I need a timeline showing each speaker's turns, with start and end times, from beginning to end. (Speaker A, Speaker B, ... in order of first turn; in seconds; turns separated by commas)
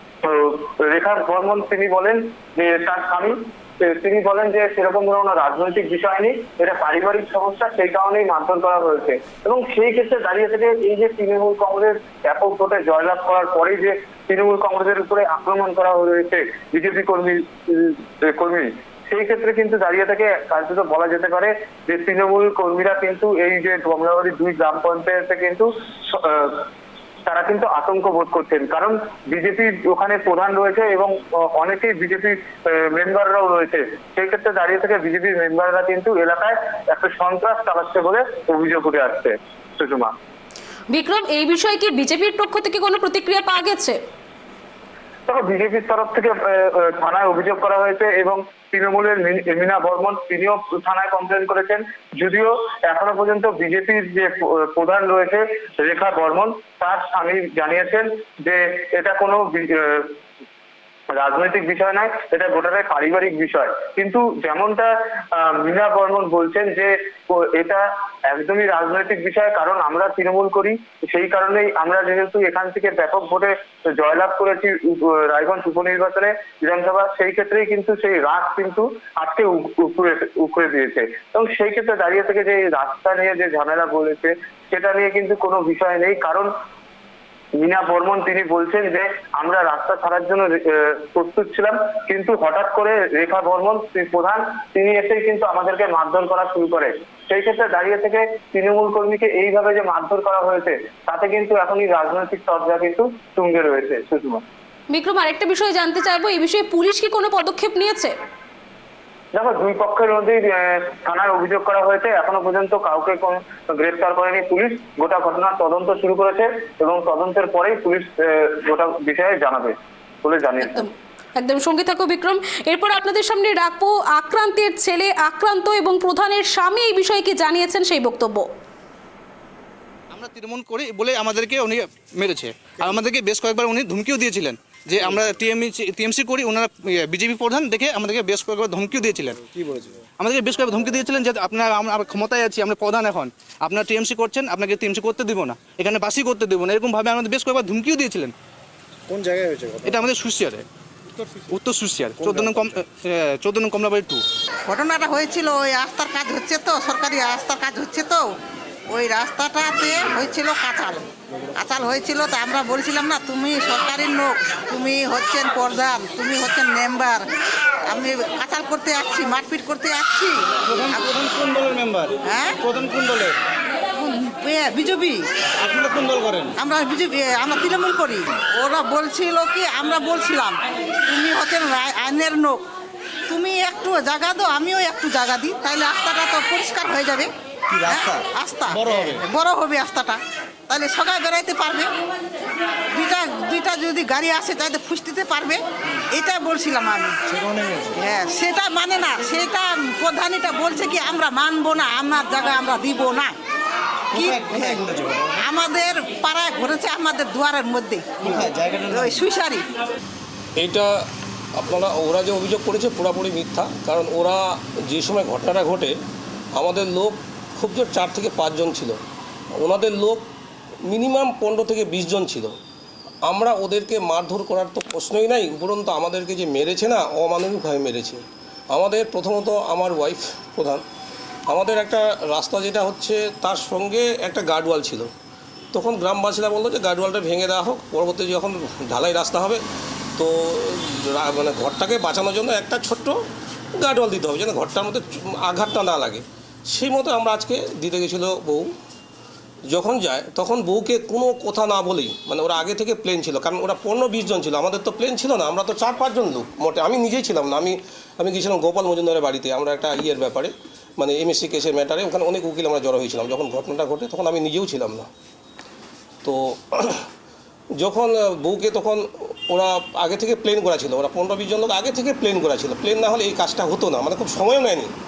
Speaker A: 0.2-26.7, Speaker A: 27.3-40.1, Speaker B: 40.9-44.0, Speaker A: 45.3-60.2, Speaker A: 61.1-86.5, Speaker A: 87.6-104.4, Speaker B: 104.9-108.1, Speaker A: 109.3-119.7, Speaker A: 120.2-120.8, Speaker B: 120.6-128.5, Speaker C: 130.1-139.5, Speaker D: 139.5-140.0, Speaker C: 140.2-148.3, Speaker D: 149.1-149.9, Speaker C: 149.8-150.7, Speaker C: 151.5-154.2, Speaker D: 152.2-152.7, Speaker E: 154.7-158.3, Speaker E: 158.9-167.2, Speaker E: 167.9-173.3, Speaker E: 174.0-182.6, Speaker E: 183.3-191.9, Speaker E: 192.9-195.6, Speaker E: 196.1-197.3, Speaker D: 197.4-198.0, Speaker E: 198.0-203.3, Speaker E: 204.1-209.7, Speaker D: 204.2-205.2, Speaker D: 208.6-209.1, Speaker F: 210.6-210.9, Speaker F: 211.6-215.9, Speaker F: 216.6-219.0, Speaker F: 219.6-220.2, Speaker F: 220.9-222.6, Speaker F: 223.3-230.8, Speaker F: 231.5-235.1, Speaker F: 235.7-239.6, Speaker F: 240.2-243.2, Speaker F: 243.8-248.7, Speaker F: 249.7-265.1, Speaker F: 266.2-267.1, Speaker F: 267.8-274.9